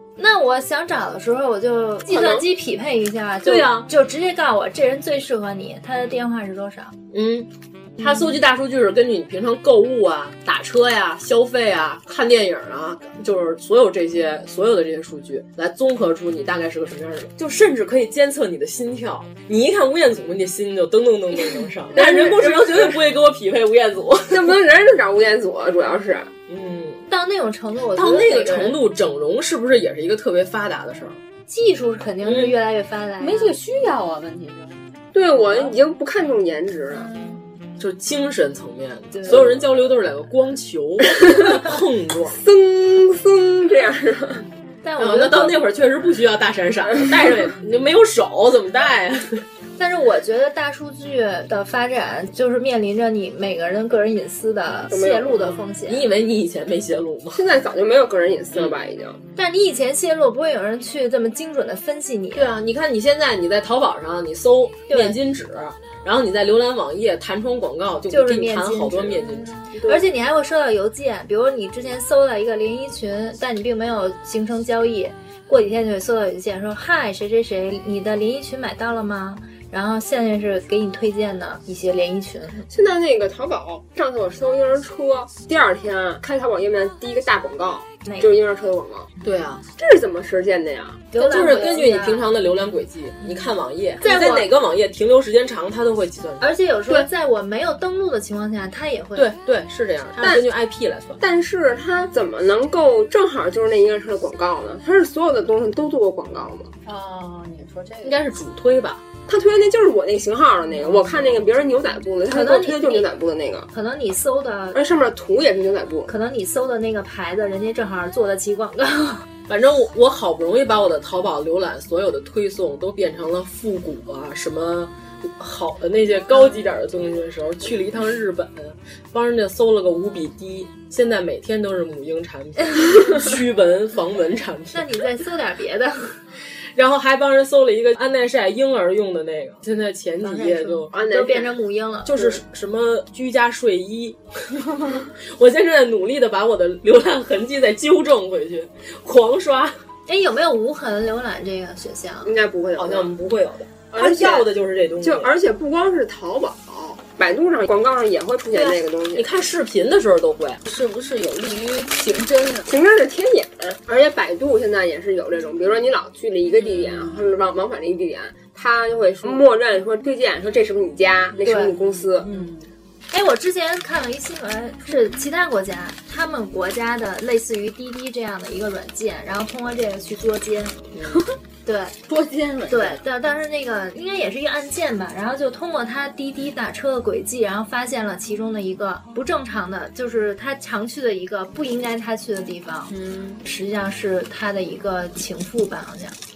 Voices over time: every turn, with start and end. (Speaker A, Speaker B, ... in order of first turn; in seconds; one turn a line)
Speaker A: 0.2-6.9
Speaker B: 2.1-2.4
Speaker C: 3.4-3.9
Speaker C: 7.1-24.6
Speaker B: 21.9-23.0
Speaker B: 24.3-26.3
Speaker C: 26.5-27.1
Speaker A: 27.1-28.8
Speaker C: 27.9-31.2
Speaker A: 31.5-33.6
Speaker C: 32.2-32.5
Speaker D: 33.2-34.8
Speaker B: 35.1-37.1
Speaker A: 36.9-37.4
Speaker C: 37.8-42.4
Speaker B: 42.3-44.5
Speaker A: 44.8-45.6
Speaker C: 45.0-49.4
Speaker A: 49.8-56.0
Speaker B: 54.9-55.6
Speaker C: 55.9-57.4
Speaker B: 57.3-59.2
Speaker A: 59.4-62.5
Speaker C: 62.3-69.5
Speaker A: 64.9-65.2
Speaker A: 68.1-69.1
Speaker D: 69.3-69.7
Speaker B: 69.7-70.1
Speaker A: 69.8-82.7
Speaker B: 82.7-89.1
Speaker A: 88.0-88.3
Speaker C: 89.2-89.6
Speaker B: 89.8-91.1
Speaker A: 91.1-92.3
Speaker C: 91.1-97.1
Speaker A: 94.0-94.5
Speaker A: 96.4-99.3
Speaker C: 99.2-101.2
Speaker B: 100.2-100.4
Speaker B: 101.2-106.7
Speaker D: 106.8-108.2
Speaker C: 108.0-109.0
Speaker B: 109.3-113.7
Speaker A: 112.3-113.1
Speaker A: 113.7-114.8
Speaker B: 114.7-116.1
Speaker A: 116.1-119.2
Speaker C: 119.5-134.9
Speaker A: 134.7-136.2
Speaker C: 136.7-140.9
Speaker A: 140.2-142.4
Speaker B: 140.9-141.6
Speaker C: 142.0-144.6
Speaker C: 145.3-149.8
Speaker A: 150.1-152.3
Speaker B: 152.2-153.1
Speaker C: 152.8-155.3
Speaker B: 153.9-154.5
Speaker B: 155.0-159.3
Speaker C: 158.5-160.6
Speaker D: 160.7-162.7
Speaker B: 162.7-172.3
Speaker D: 166.7-167.2
Speaker A: 171.4-171.7
Speaker D: 172.2-172.7
Speaker A: 173.1-180.8
Speaker C: 180.9-181.2
Speaker D: 181.0-181.3
Speaker A: 181.6-181.9
Speaker D: 182.1-183.0
Speaker A: 182.7-192.9
Speaker D: 192.9-193.4
Speaker A: 193.4-196.2